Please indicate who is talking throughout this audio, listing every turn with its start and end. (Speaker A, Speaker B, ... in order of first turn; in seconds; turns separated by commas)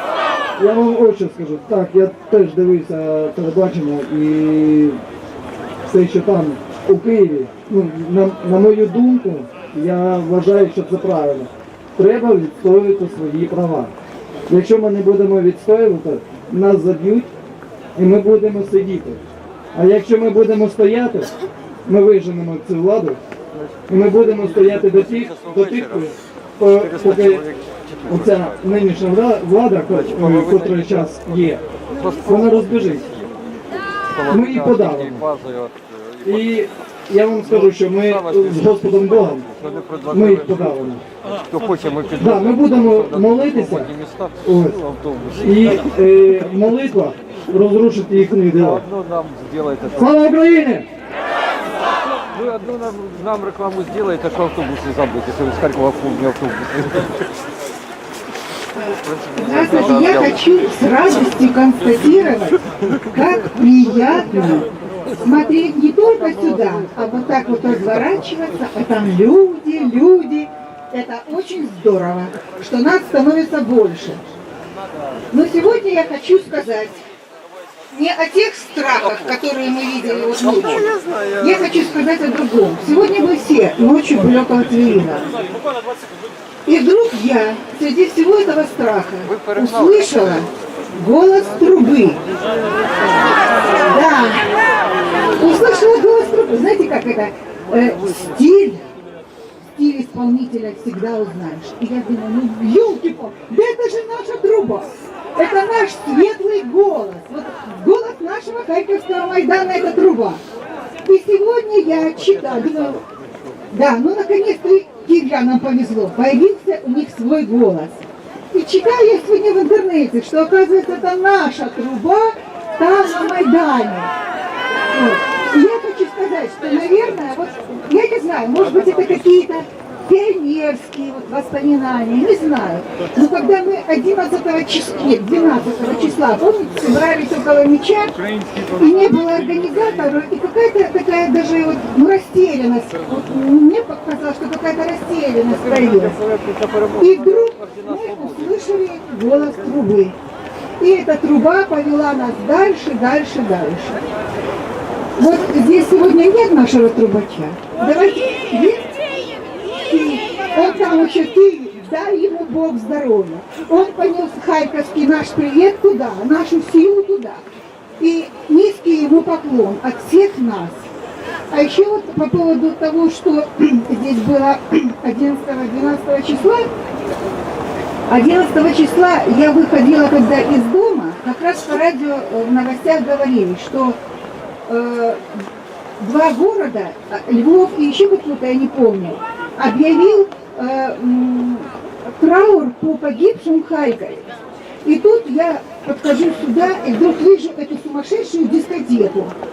Speaker A: 0.6-5.0, Speaker A: 5.9-13.9, Speaker A: 14.5-17.3, Speaker A: 17.9-19.2, Speaker A: 19.7-21.3, Speaker A: 21.9-23.2, Speaker A: 23.9-27.5, Speaker B: 27.2-28.0, Speaker A: 28.1-31.6, Speaker A: 32.1-33.1, Speaker A: 34.2-35.3, Speaker B: 34.4-35.8, Speaker A: 36.2-39.5, Speaker B: 39.6-40.1, Speaker A: 40.1-41.0, Speaker B: 41.5-44.3, Speaker A: 42.2-44.8, Speaker B: 44.9-45.4, Speaker A: 45.4-48.9, Speaker B: 48.9-49.9, Speaker A: 49.9-50.9, Speaker B: 52.3-57.1, Speaker C: 58.8-64.7, Speaker C: 65.2-74.2, Speaker C: 75.3-77.0, Speaker C: 77.9-85.3, Speaker C: 86.7-92.2, Speaker C: 93.8-94.5, Speaker C: 95.4-98.8, Speaker C: 99.8-110.4, Speaker C: 111.0-113.0, Speaker C: 113.7-124.1, Speaker C: 124.9-146.2, Speaker C: 147.0-150.2, Speaker C: 150.8-154.0, Speaker C: 155.2-158.9, Speaker C: 159.7-167.4, Speaker C: 168.0-170.9, Speaker C: 171.5-176.7, Speaker C: 178.1-184.0, Speaker C: 184.7-185.5, Speaker C: 186.0-199.3